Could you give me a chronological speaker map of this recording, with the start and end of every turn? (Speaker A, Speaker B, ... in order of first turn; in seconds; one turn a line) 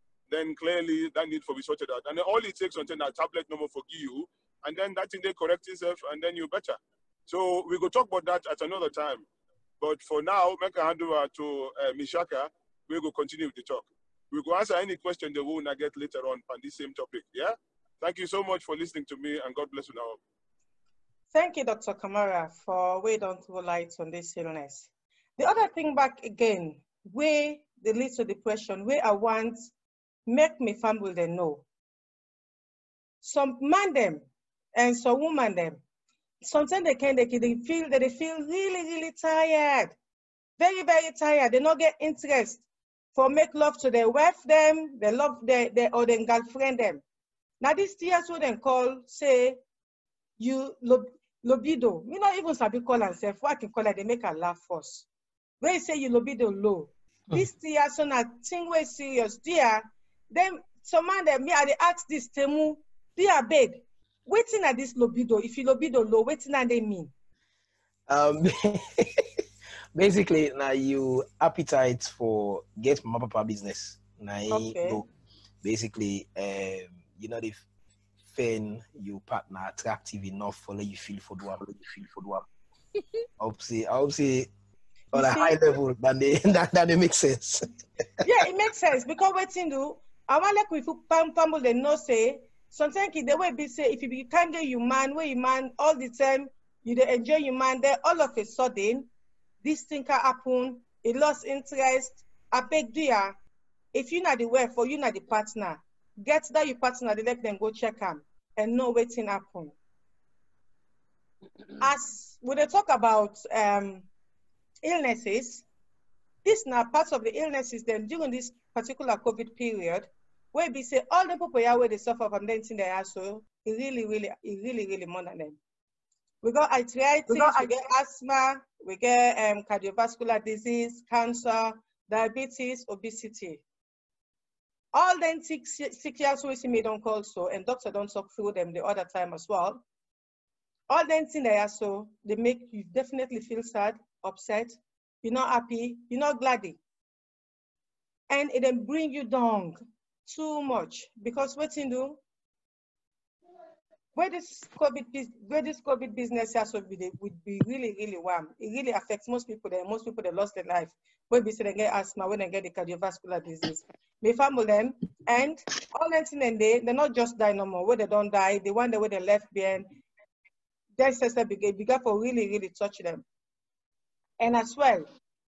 Speaker A: 0.3-9.2
Speaker A: 9.8-20.2
Speaker B: 21.3-29.7
Speaker B: 30.3-31.6
Speaker B: 33.2-35.8
Speaker B: 36.4-40.0
Speaker B: 40.6-47.0
Speaker B: 47.6-49.6
Speaker B: 50.4-55.0
Speaker B: 55.6-67.1
Speaker C: 68.1-69.2
Speaker C: 69.9-75.1
Speaker B: 74.5-75.0
Speaker C: 75.6-77.6
Speaker C: 78.3-82.4
Speaker C: 83.4-84.5
Speaker B: 85.1-85.6
Speaker C: 85.1-87.6
Speaker B: 88.2-99.1
Speaker B: 99.6-103.4
Speaker B: 103.9-109.7
Speaker B: 111.8-114.1
Speaker B: 114.8-115.6
Speaker B: 116.4-125.6
Speaker B: 126.4-133.6
Speaker B: 134.9-139.8
Speaker B: 140.9-146.8
Speaker B: 148.3-152.2
Speaker B: 154.1-169.9
Speaker B: 171.0-173.2
Speaker B: 174.4-175.1